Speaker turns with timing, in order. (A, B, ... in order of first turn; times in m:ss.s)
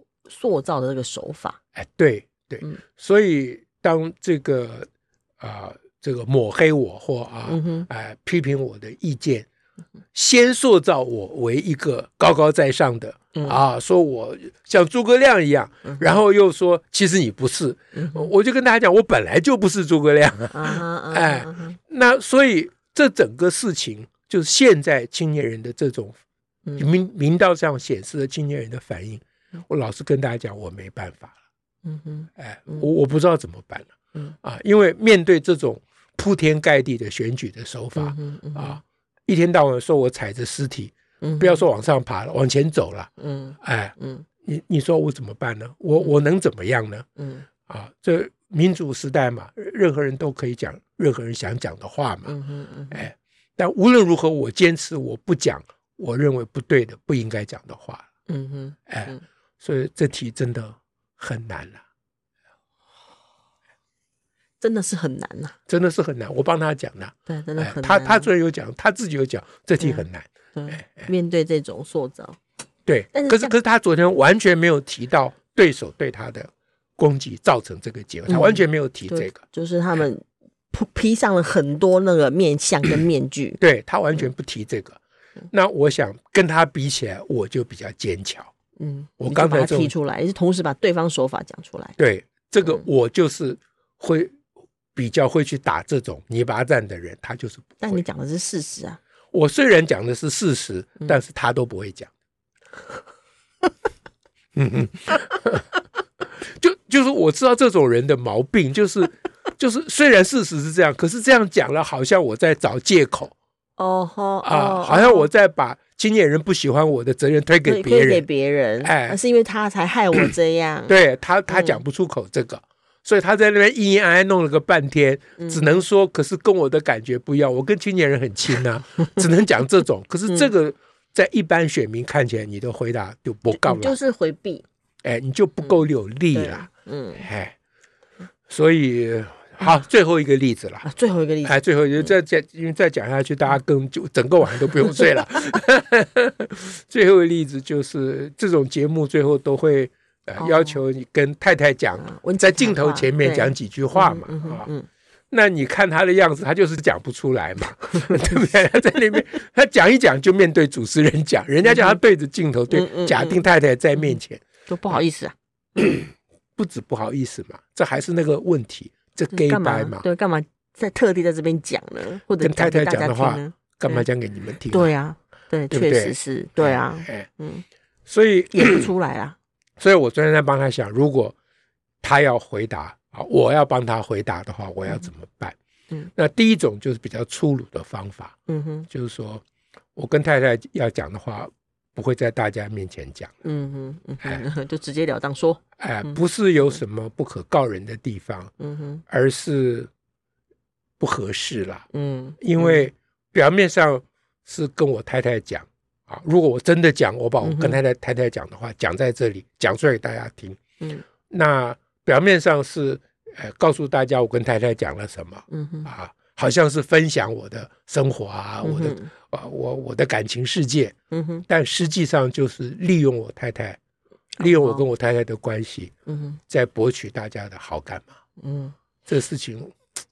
0:00.2-0:01.6 A
0:01.8-0:04.9 B
0:05.4-0:09.5 B
0:07.5-0:07.9 A
0:10.1-0:26.2 B
0:17.9-0:18.3 A
0:20.5-0:21.8 A
0:26.8-0:31.4 B
0:31.8-0:32.8 A
0:32.4-0:47.1 B
0:38.0-0:38.8 A
0:41.2-0:41.6 A
0:43.2-0:44.2 A
0:47.2-0:47.4 A
0:47.7-0:52.3 B
0:52.2-0:53.0 A
0:52.9-0:58.1 B
0:58.3-0:59.2 A
0:58.9-1:01.8 B
1:04.6-1:05.5 A
1:05.7-1:11.1 B
1:07.3-1:08.3 A
1:09.8-1:12.4 A
1:12.8-1:19.4 B
1:13.1-1:13.5 A
1:18.3-1:23.6 A
1:23.6-1:25.0 B
1:25.5-1:28.5 B
1:28.8-1:32.0 A
1:29.2-1:29.9 B
1:32.0-1:34.4 B
1:34.9-1:38.0 B
1:37.8-1:39.0 A
1:39.3-1:42.1 B
1:44.5-1:53.3 B
1:53.8-1:55.3 A
1:54.4-1:58.2 B
1:57.6-2:00.9 A
1:58.8-1:59.2 B
2:00.9-2:14.0 B
2:01.5-2:01.8 A
2:05.4-2:05.8 A
2:13.5-2:14.6 A
2:15.0-2:17.5 B
2:16.3-2:17.2 A
2:18.5-2:20.9 B
2:20.8-2:22.1 A
2:21.4-2:34.7 B
2:30.4-2:30.8 A
2:32.0-2:34.8 A
2:35.3-2:45.0 B
2:38.0-2:38.4 A
2:41.6-2:42.0 A
2:42.7-2:43.4 A
2:44.0-2:45.3 A
2:45.8-2:50.0 B
2:49.3-2:54.1 A
2:52.4-2:54.9 B
2:54.7-2:57.6 A
2:55.7-2:57.3 B
2:58.0-2:58.9 B
2:58.5-2:59.4 A
2:59.8-3:01.4 B
3:02.0-3:05.6 B
3:06.2-3:08.4 B
3:08.5-3:08.9 A
3:08.9-3:09.4 B
3:10.0-3:13.3 B
3:13.4-3:16.2 A
3:15.8-3:18.5 B
3:18.6-3:19.0 A
3:19.1-3:19.9 B
3:21.0-3:21.8 B
3:21.9-3:22.9 A
3:22.4-3:30.6 B
3:27.4-3:27.8 A
3:31.3-3:40.9 B
3:35.5-3:35.9 A
3:38.6-3:39.1 A
3:41.1-3:41.4 A
3:41.5-3:43.8 B
3:44.4-3:44.8 A
3:44.4-3:45.9 B
3:46.1-3:46.4 A
3:46.5-3:48.1 B
3:48.4-3:48.7 A
3:49.0-3:49.8 B